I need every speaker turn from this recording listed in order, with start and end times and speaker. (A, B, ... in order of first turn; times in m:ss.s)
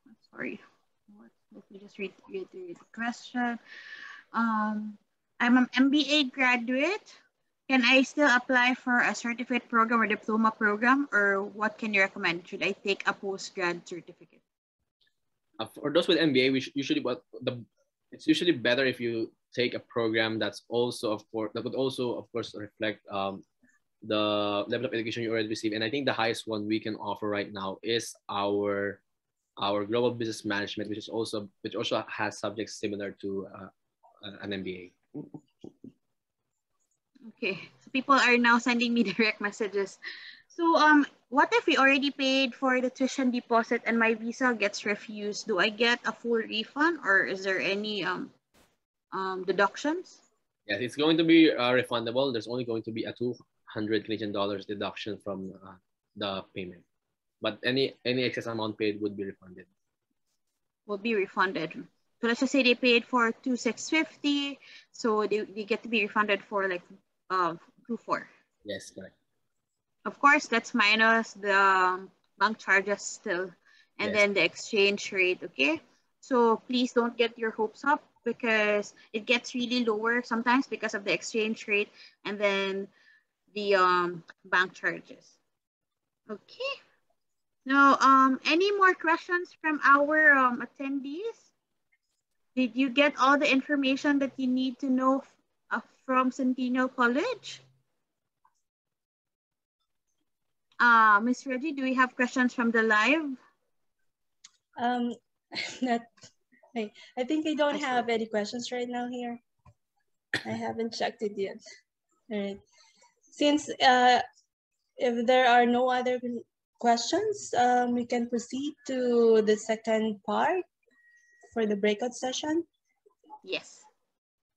0:00.2-0:03.6 A
0:04.3-0:07.2 A
0:07.7-0:14.4 A
0:15.6-0:23.4 B
0:24.0-0:29.0 B
0:29.6-0:33.7 B
0:34.2-0:35.0 B
0:37.3-0:40.0 A
0:40.5-0:48.3 A
0:49.1-0:50.2 A
0:50.7-0:56.8 B
0:57.4-0:59.7 B
1:00.9-1:08.3 A
1:08.7-1:09.1 B
1:10.0-1:22.9 A
1:23.5-1:25.3 A
1:26.3-1:26.8 A
1:27.7-1:31.5 A
1:32.6-1:37.6 A
1:40.8-1:43.4 A
1:44.8-1:46.1 C
1:46.7-1:49.4 C
1:50.4-1:51.6 C
1:52.3-1:52.6 C
1:53.3-1:54.2 C
1:55.0-2:00.6 C
2:01.5-2:02.7 C
2:03.4-2:03.9 A